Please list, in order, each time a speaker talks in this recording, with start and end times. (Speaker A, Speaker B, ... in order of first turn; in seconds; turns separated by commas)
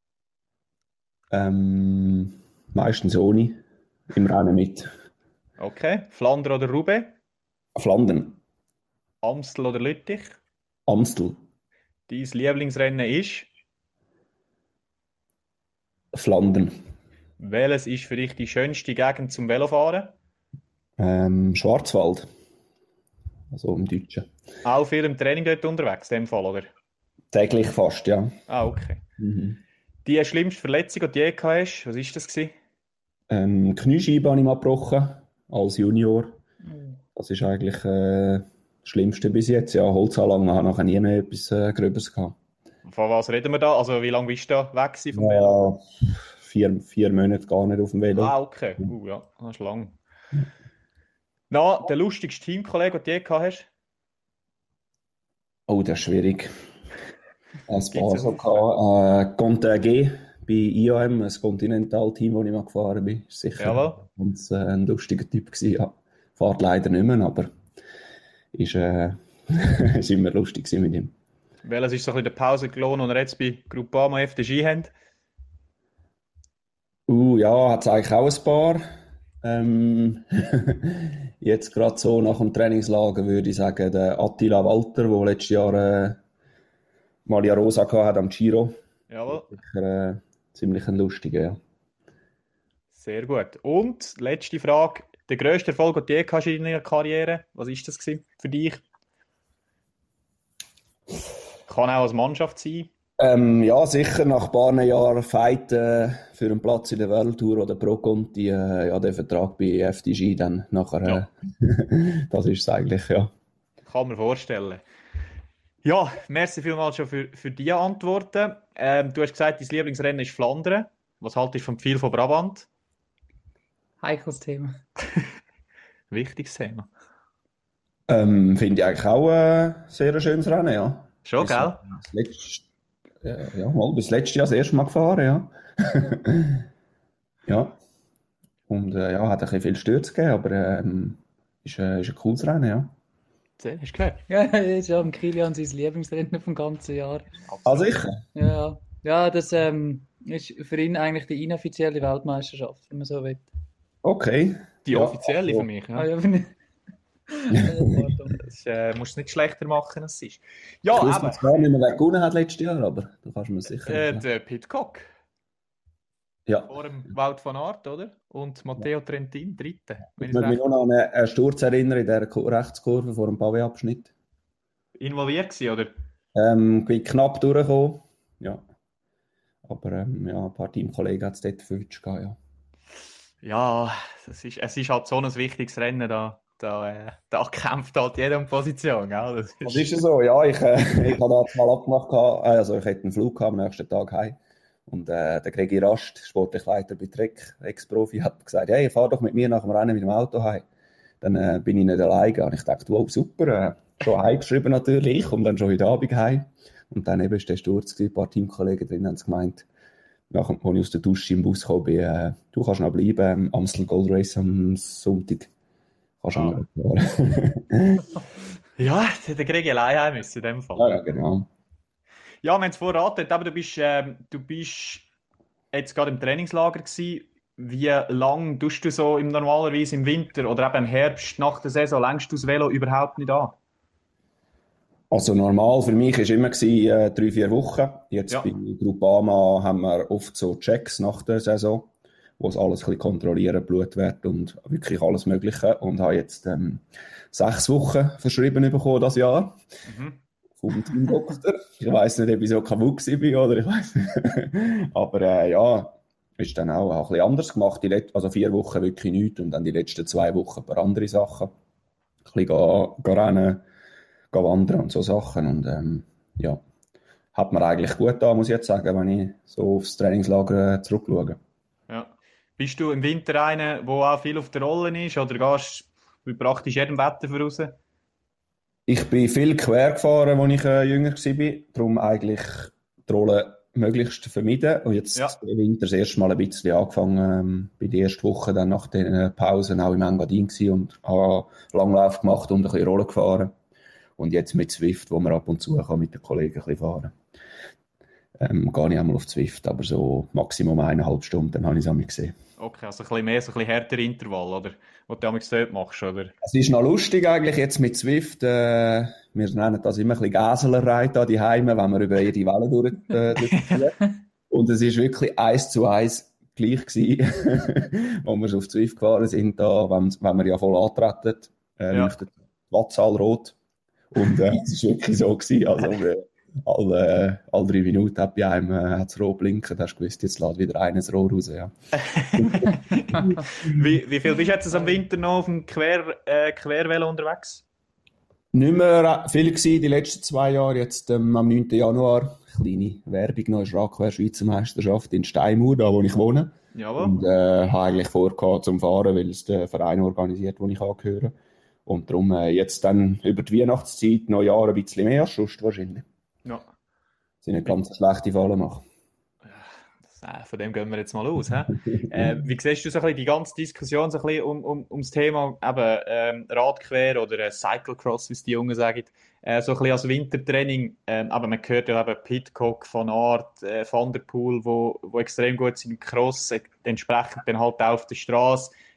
Speaker A: 1.3-3.6, Speaker A: 4.1-4.9, Speaker B: 5.6-7.1, Speaker A: 7.8-8.4, Speaker B: 9.2-10.4, Speaker A: 10.9-11.4, Speaker B: 12.1-13.5, Speaker A: 16.1-16.7, Speaker B: 17.4-20.1, Speaker A: 21.0-22.2, Speaker A: 23.5-24.2, Speaker B: 24.6-26.7, Speaker A: 27.3-28.4, Speaker B: 28.5-29.0, Speaker A: 29.2-29.6, Speaker B: 30.0-32.5, Speaker A: 33.3-36.4, Speaker A: 37.1-42.4, Speaker B: 42.8-45.7, Speaker A: 45.1-48.3, Speaker B: 48.1-50.0, Speaker B: 51.5-53.7, Speaker A: 55.7-56.5, Speaker A: 57.7-67.5, Speaker B: 57.9-58.6, Speaker B: 63.6-64.0, Speaker A: 68.5-71.1, Speaker B: 71.6-74.9, Speaker A: 77.1-78.8, Speaker A: 79.4-86.2, Speaker A: 87.2-88.8, Speaker B: 89.1-89.5, Speaker A: 89.3-91.6, Speaker B: 92.9-98.8, Speaker B: 101.7-102.9, Speaker A: 103.2-113.3, Speaker B: 113.8-114.8, Speaker B: 115.8-122.7, Speaker C: 124.0-124.8, Speaker B: 126.1-126.9, Speaker A: 128.1-132.6, Speaker B: 131.2-131.8, Speaker A: 133.2-136.6, Speaker A: 137.4-137.8, Speaker A: 138.7-142.9, Speaker B: 143.6-144.2, Speaker C: 144.3-147.2, Speaker B: 147.5-147.9, Speaker A: 147.6-148.2, Speaker C: 148.3-153.5, Speaker A: 154.0-155.7, Speaker B: 154.8-156.1, Speaker C: 155.9-156.5, Speaker C: 157.3-158.3, Speaker B: 158.3-161.5, Speaker A: 160.9-164.2, Speaker B: 163.8-165.0, Speaker B: 166.7-170.6, Speaker A: 170.2-174.1, Speaker B: 175.0-175.9, Speaker A: 176.3-178.6, Speaker A: 179.6-182.4, Speaker B: 183.4-189.8, Speaker A: 189.6-200.6, Speaker A: 201.2-209.7, Speaker A: 210.3-215.5, Speaker A: 216.2-218.1, Speaker B: 216.3-216.6, Speaker B: 218.8-221.0, Speaker A: 220.7-221.5, Speaker B: 222.4-225.1, Speaker B: 225.7-233.6, Speaker A: 235.1-249.6, Speaker B: 249.9-250.2, Speaker A: 250.6-261.5, Speaker A: 262.2-263.6, Speaker A: 264.3-266.6, Speaker A: 267.3-271.4, Speaker B: 271.9-277.8, Speaker A: 278.9-293.5, Speaker A: 294.2-297.1, Speaker A: 298.4-302.4, Speaker B: 302.6-306.3, Speaker A: 306.4-314.0, Speaker A: 314.5-323.6, Speaker A: 324.1-331.7, Speaker B: 332.1-337.6, Speaker A: 332.3-333.8, Speaker A: 338.5-351.3, Speaker B: 346.7-347.2, Speaker A: 351.9-356.0, Speaker A: 357.4-358.8, Speaker B: 359.4-378.7